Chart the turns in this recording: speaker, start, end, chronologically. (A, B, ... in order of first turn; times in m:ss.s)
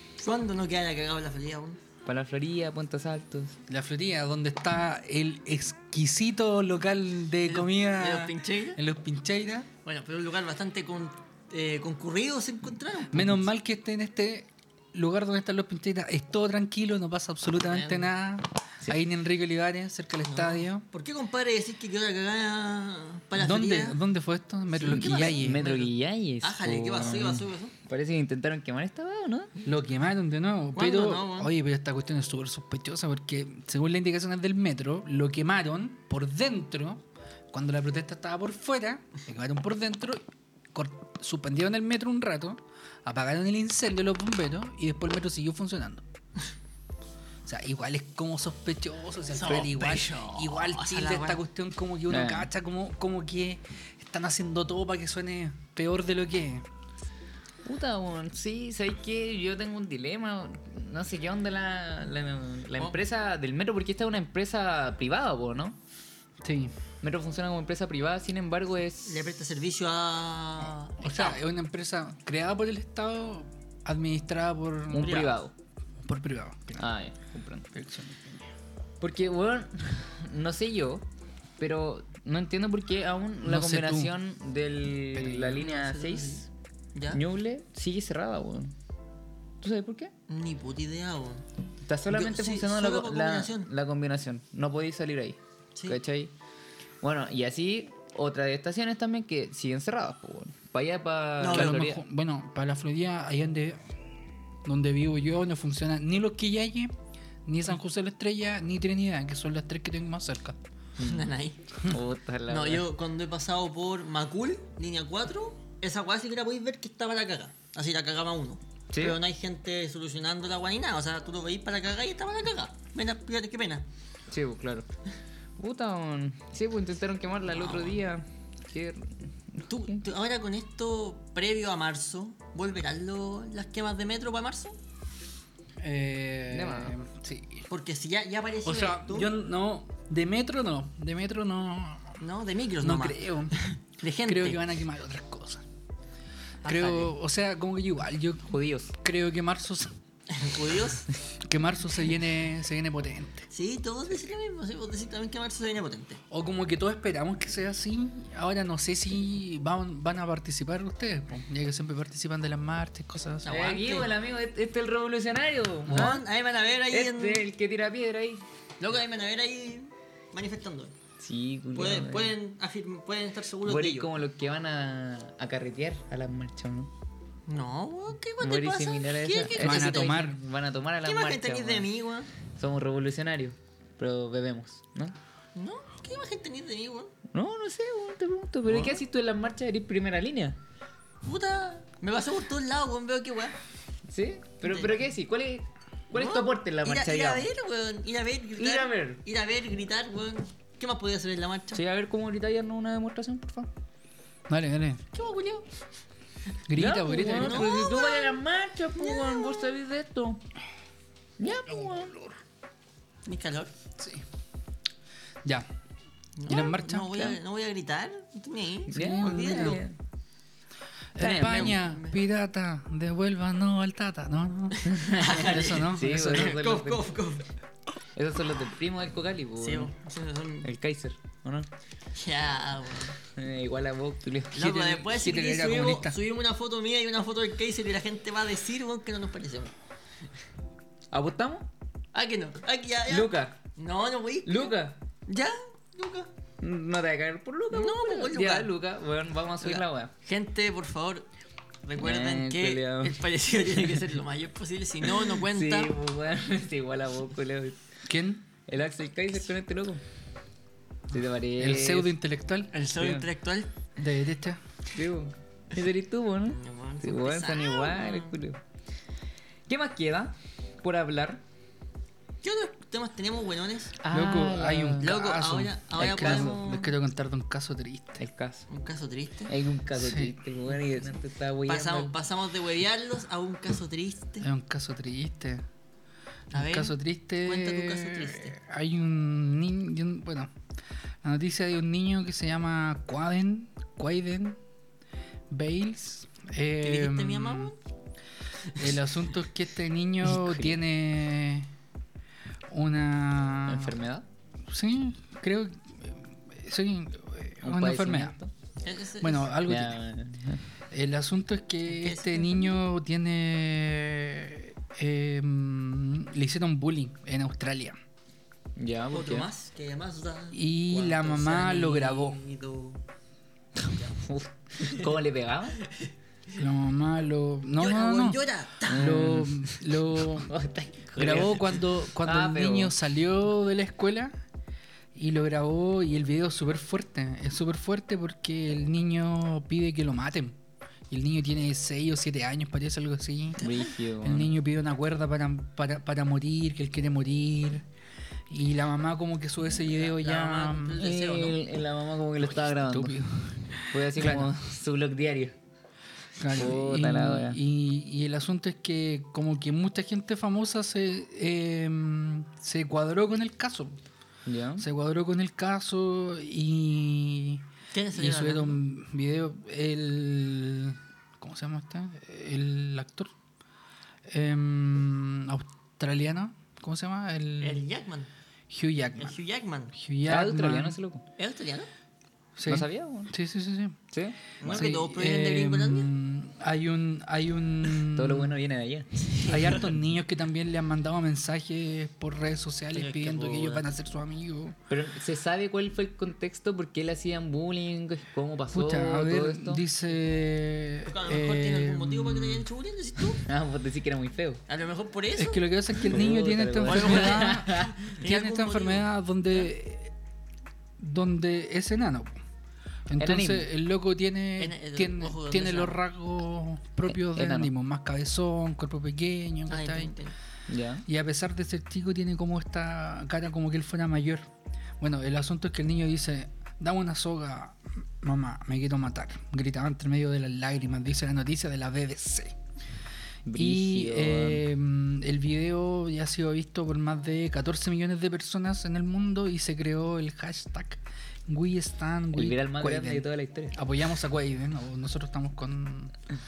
0:00.2-0:01.8 A
0:02.1-0:03.6 B
0:03.7-0:09.7 C
0:07.5-0:08.8 A
0:09.8-0:13.3 A
0:13.1-0:20.8 C
0:17.6-0:18.1 A
0:20.3-0:24.0 A
0:23.4-0:25.7 C
0:24.8-0:27.7 A
0:24.9-0:29.5 B
0:29.6-0:46.0 C
0:30.8-0:31.5 A
0:47.4-0:56.7 C
0:49.4-0:51.4 A
0:52.1-0:52.5 B
0:57.6-1:05.8 B
1:06.4-1:06.7 C
1:07.0-1:09.2 B
1:09.1-1:11.4 A
1:11.0-1:15.2 C
1:14.9-1:15.5 B
1:15.0-1:15.4 A
1:16.0-1:16.8 C
1:16.8-1:17.7 B
1:17.7-1:18.5 C
1:19.0-1:21.0 B
1:21.6-1:26.5 B
1:23.4-1:24.1 C
1:25.1-1:25.6 C
1:25.6-1:27.2 A
1:27.1-1:28.7 B
1:29.6-1:30.1 B
1:30.3-1:31.4 A
1:31.8-1:36.3 B
1:32.1-1:33.7 A
1:37.0-1:42.0 B
1:41.4-1:41.9 A
1:41.5-1:43.8 C
1:44.6-1:46.9 C
1:47.5-1:50.6 C
1:51.0-1:51.3 B
1:51.0-1:51.6 A
1:51.8-1:52.9 B
1:52.5-2:03.9 A
1:58.9-1:59.2 B
2:04.3-2:04.9 B
2:05.6-2:10.0 B
2:07.5-2:08.0 A
2:09.7-2:14.8 A
2:15.8-2:17.7 C
2:16.5-2:16.9 B
2:17.7-2:19.3 A
2:18.6-2:22.2 C
2:22.2-2:24.7 A
2:22.8-2:23.6 C
2:24.3-2:25.6 C
2:26.6-2:27.1 A
2:26.6-2:29.9 C
2:28.5-2:28.9 B
2:30.3-2:31.1 A
2:31.4-2:33.5 C
2:33.5-2:36.2 A
2:36.3-2:43.5 C
2:43.4-2:44.1 A
2:43.5-2:46.2 B
2:45.9-2:47.4 A
2:46.9-2:48.4 B
2:48.8-2:51.0 A
2:51.2-2:52.4 B
2:51.8-2:54.1 A
2:53.6-2:56.9 B
2:57.5-3:00.3 A
2:58.4-3:01.9 B
2:59.6-3:00.4 C
3:01.0-3:02.3 A
3:02.6-3:05.2 B
3:05.6-3:07.1 A
3:07.3-3:10.6 B
3:08.7-3:09.0 A
3:11.2-3:13.6 A
3:14.1-3:17.5 B
3:14.6-3:15.0 A
3:16.1-3:21.8 A
3:18.6-3:19.2 B
3:21.7-3:23.7 B
3:24.5-3:25.0 C
3:25.1-3:25.6 A
3:26.7-3:27.7 C
3:26.7-3:30.4 B
3:27.3-3:28.4 A
3:29.0-3:29.8 A
3:31.4-3:32.2 B
3:33.3-3:33.7 A
3:34.0-3:34.2 C
3:36.4-3:39.8 A
3:36.5-3:37.4 C
3:38.9-3:40.0 B
3:38.9-3:39.8 C
3:41.2-3:46.6 C
3:41.2-3:41.8 B
3:41.4-3:42.2 A
3:44.8-3:47.5 A
3:44.9-3:47.2 B
3:48.2-3:49.9 B
3:49.6-3:50.7 A
3:50.6-3:51.7 B
3:52.2-3:53.2 A
3:53.3-3:54.7 B
3:54.5-3:59.7 A
3:54.6-3:56.2 C
4:01.1-4:01.7 B
4:02.1-4:04.8 A
4:03.1-4:03.6 B
4:04.4-4:05.0 B
4:05.3-4:06.3 A
4:06.6-4:10.1 B
4:07.7-4:08.7 A
4:09.6-4:11.3 A
4:11.8-4:16.0 A
4:12.0-4:13.2 B
4:15.3-4:17.8 B
4:18.1-4:18.4 C
4:18.7-4:20.0 B
4:21.1-4:22.2 B
4:21.6-4:22.7 C
4:22.7-4:23.8 A
4:23.0-4:23.3 B
4:24.0-4:24.6 C
4:24.9-4:28.6 B
4:26.5-4:28.4 A
4:29.7-4:31.4 B
4:32.4-4:34.0 A
4:34.0-4:35.2 B
4:34.1-4:38.2 C
4:35.0-4:37.0 A
4:36.0-4:36.6 B
4:38.2-4:38.7 B
4:38.7-4:39.5 A
4:39.5-4:42.2 B
4:39.9-4:40.4 C
4:41.7-4:44.5 A
4:44.4-4:45.6 C
4:46.5-4:48.6 A
4:46.5-4:50.5 C
4:51.2-4:54.6 C
4:55.5-4:57.7 C
4:56.8-4:57.8 A
4:58.7-4:59.0 A
4:58.8-5:01.7 C
5:00.2-5:00.8 B
5:02.7-5:04.0 C
5:03.7-5:04.2 B
5:04.7-5:08.4 C
5:07.6-5:08.5 B
5:08.8-5:09.5 A
5:09.2-5:10.0 C
5:09.7-5:10.6 B
5:10.9-5:18.0 C
5:11.9-5:12.8 A
5:18.8-5:19.5 B
5:19.1-5:23.0 A
5:20.5-5:22.4 C
5:24.2-5:25.8 B
5:26.6-5:28.4 C
5:27.8-5:29.1 A
5:28.9-5:33.0 B
5:28.9-5:30.5 C
5:31.2-5:34.3 C
5:35.2-5:40.6 C
5:41.1-5:47.9 C
5:43.6-5:44.5 B
5:48.5-5:51.0 C
5:49.9-5:51.6 A
5:51.0-5:53.2 B
5:52.4-5:54.5 C
5:53.9-5:55.6 B
5:56.4-6:04.0 C
5:56.5-5:57.6 B
6:04.5-6:04.9 B
6:04.8-6:13.3 C
6:07.9-6:08.8 A
6:14.3-6:17.8 C
6:17.6-6:18.3 A
6:18.7-6:19.4 C
6:19.2-6:19.9 A
6:19.9-6:21.0 C
6:20.3-6:21.2 B
6:21.4-6:21.9 A
6:22.6-6:24.0 C
6:22.7-6:23.3 B
6:24.1-6:24.9 B
6:24.6-6:26.1 A
6:24.6-6:28.5 C
6:28.1-6:29.1 B
6:29.2-6:29.9 A
6:29.5-6:34.8 C
6:32.9-6:33.9 A
6:34.9-6:39.8 B
6:38.7-6:42.7 C
6:41.1-6:43.4 A
6:43.4-6:44.6 B
6:44.7-6:46.2 A
6:45.4-6:50.1 C
6:46.0-6:48.0 B
6:46.8-6:49.1 A
6:51.0-6:52.4 C
6:53.1-7:00.1 C
6:53.2-6:53.7 B
6:54.6-6:56.0 A
6:57.1-6:57.7 B
6:59.7-7:00.4 A
7:00.7-7:01.0 B
7:01.1-7:04.5 C
7:05.0-7:12.6 C
7:13.4-7:14.6 B
7:13.6-7:26.1 C
7:22.3-7:23.8 B